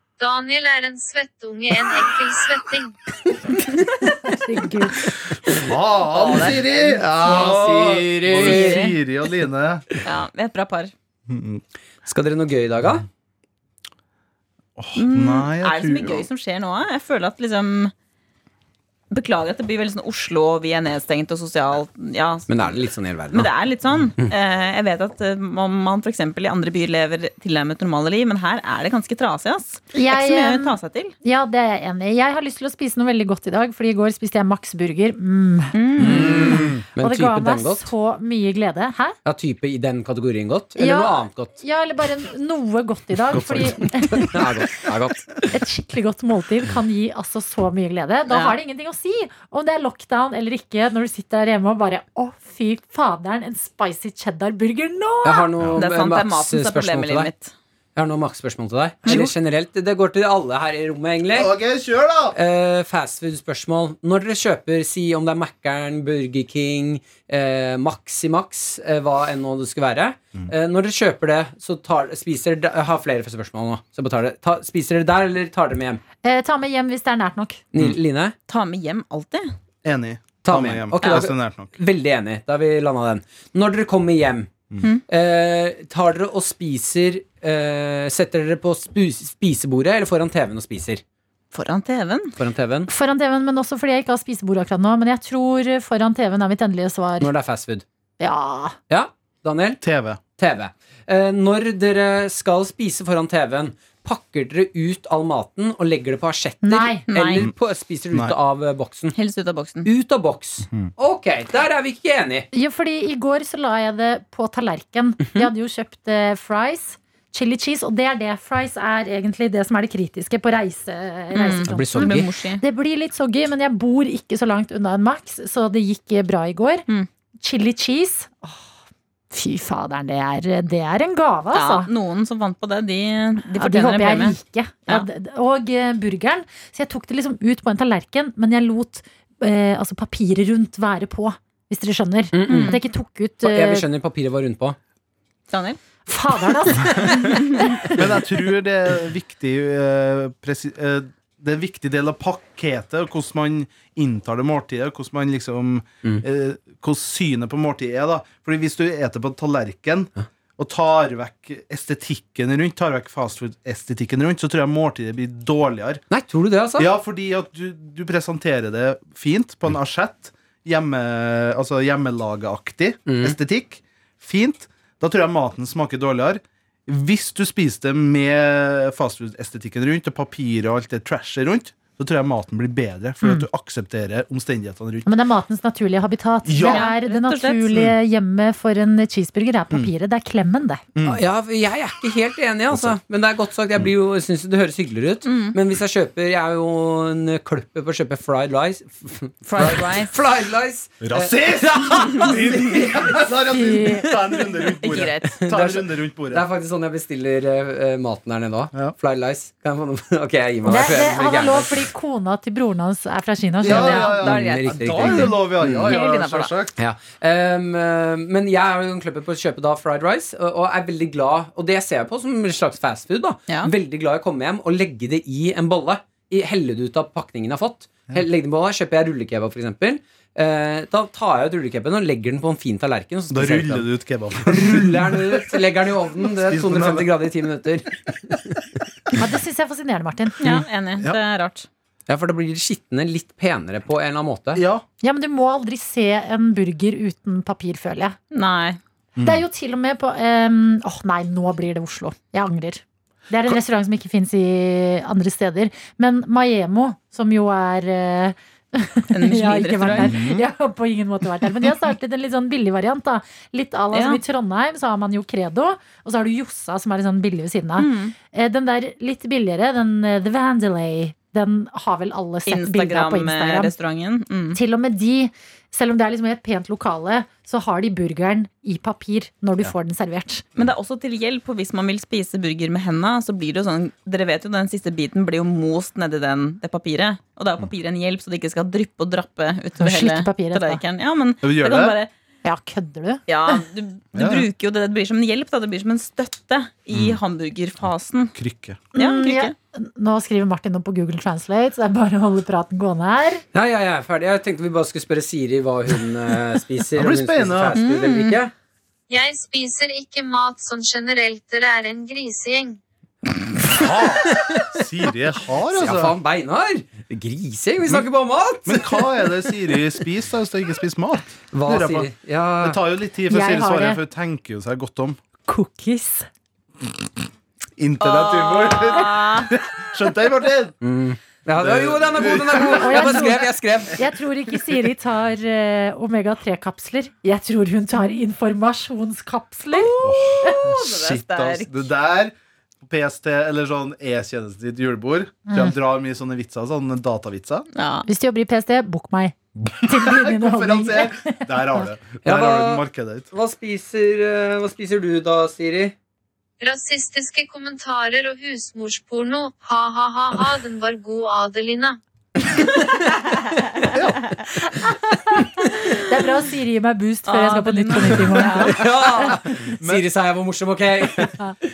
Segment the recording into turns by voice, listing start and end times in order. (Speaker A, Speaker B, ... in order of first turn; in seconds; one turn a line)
Speaker A: 0.2-2.9
Speaker B: 3.3-3.7
Speaker C: 4.3-5.0
Speaker B: 5.0-8.9
Speaker D: 5.5-9.8
Speaker E: 6.2-6.5
Speaker E: 8.4-8.9
Speaker E: 10.0-10.9
Speaker D: 11.3-11.6
Speaker B: 12.1-13.0
Speaker D: 14.8-16.3
Speaker E: 14.9-17.9
Speaker E: 19.1-31.1
Speaker B: 22.5-23.5
Speaker C: 29.9-39.1
Speaker E: 35.7-36.6
Speaker B: 36.0-37.9
Speaker D: 36.0-36.8
Speaker B: 39.2-41.5
Speaker C: 40.8-44.5
Speaker D: 43.3-43.9
Speaker B: 43.3-45.4
Speaker C: 45.5-55.5
Speaker E: 48.3-48.6
Speaker B: 55.2-57.3
Speaker D: 55.6-55.8
Speaker E: 55.8-57.5
Speaker B: 58.0-61.5
Speaker E: 59.0-59.3
Speaker D: 61.3-62.4
Speaker B: 62.3-76.0
Speaker C: 76.2-77.6
Speaker B: 77.7-78.3
Speaker E: 78.5-79.5
Speaker D: 79.8-81.8
Speaker B: 80.4-84.5
Speaker E: 81.0-81.3
Speaker B: 85.1-91.0
Speaker E: 91.5-92.3
Speaker B: 92.4-92.9
Speaker C: 92.9-97.3
Speaker B: 97.2-97.8
Speaker C: 98.2-98.8
Speaker B: 98.9-99.8
Speaker D: 99.8-100.2
Speaker B: 100.4-109.1
Speaker C: 106.6-107.0
Speaker E: 107.1-107.4
Speaker E: 109.1-109.9
Speaker B: 109.8-112.5
Speaker C: 112.5-126.9
Speaker E: 121.3-122.6
Speaker B: 121.7-122.3
Speaker C: 127.4-128.6
Speaker C: 129.3-131.9
Speaker E: 131.5-134.3
Speaker C: 133.6-143.8
Speaker B: 142.3-142.8
Speaker E: 142.5-142.8
Speaker B: 143.4-144.8
Speaker E: 145.5-145.8
Speaker C: 146.1-147.9
Speaker E: 147.2-147.8
Speaker D: 147.9-166.0
Speaker B: 166.1-166.9
Speaker D: 166.8-185.1
Speaker B: 173.1-173.3
Speaker C: 185.1-190.8
Speaker D: 186.4-186.9
Speaker E: 186.6-187.7
Speaker D: 190.9-191.2
Speaker B: 191.0-203.2
Speaker E: 195.2-195.6
Speaker E: 199.5-200.1
Speaker D: 201.0-206.4
Speaker C: 203.5-204.1
Speaker E: 204.8-205.4
Speaker B: 205.4-211.9
Speaker C: 210.6-214.2
Speaker D: 213.6-216.8
Speaker B: 213.7-216.0
Speaker E: 213.7-216.5
Speaker B: 216.8-233.9
Speaker D: 233.3-235.6
Speaker B: 234.4-238.7
Speaker D: 236.2-237.1
Speaker C: 239.2-240.4
Speaker E: 240.4-241.7
Speaker D: 240.4-241.2
Speaker B: 242.1-244.6
Speaker D: 244.5-244.8
Speaker C: 245.0-248.2
Speaker E: 248.3-248.8
Speaker D: 249.2-249.4
Speaker C: 249.2-273.7
Speaker E: 259.1-260.2
Speaker D: 259.9-260.4
Speaker E: 263.9-264.2
Speaker E: 267.8-268.1
Speaker E: 272.4-274.6
Speaker C: 274.5-280.4
Speaker E: 280.6-292.1
Speaker C: 289.8-290.8
Speaker D: 291.4-291.9
Speaker C: 292.4-293.6
Speaker E: 293.3-298.3
Speaker D: 294.1-294.5
Speaker D: 296.9-297.2
Speaker D: 298.3-298.8
Speaker E: 298.9-299.5
Speaker C: 298.9-303.4
Speaker B: 303.5-308.5
Speaker D: 306.9-307.8
Speaker E: 307.8-308.4
Speaker A: 309.1-312.8
Speaker B: 313.7-314.8
Speaker D: 313.7-316.1
Speaker B: 315.7-319.3
Speaker D: 318.6-325.2
Speaker B: 321.5-322.8
Speaker C: 323.3-324.0
Speaker C: 325.5-326.3
Speaker D: 327.8-330.8
Speaker E: 328.0-329.5
Speaker B: 330.8-334.0
Speaker D: 331.6-333.4
Speaker C: 332.7-339.9
Speaker E: 339.7-341.9
Speaker D: 340.0-347.7
Speaker C: 345.5-345.7
Speaker E: 347.7-348.1
Speaker C: 348.1-351.9
Speaker D: 349.6-353.3
Speaker B: 352.2-355.9
Speaker A: 356.6-362.0
Speaker D: 363.9-364.3
Speaker C: 364.8-365.4
Speaker C: 366.1-368.8
Speaker E: 367.3-368.8
Speaker B: 368.7-371.4
Speaker D: 368.8-370.1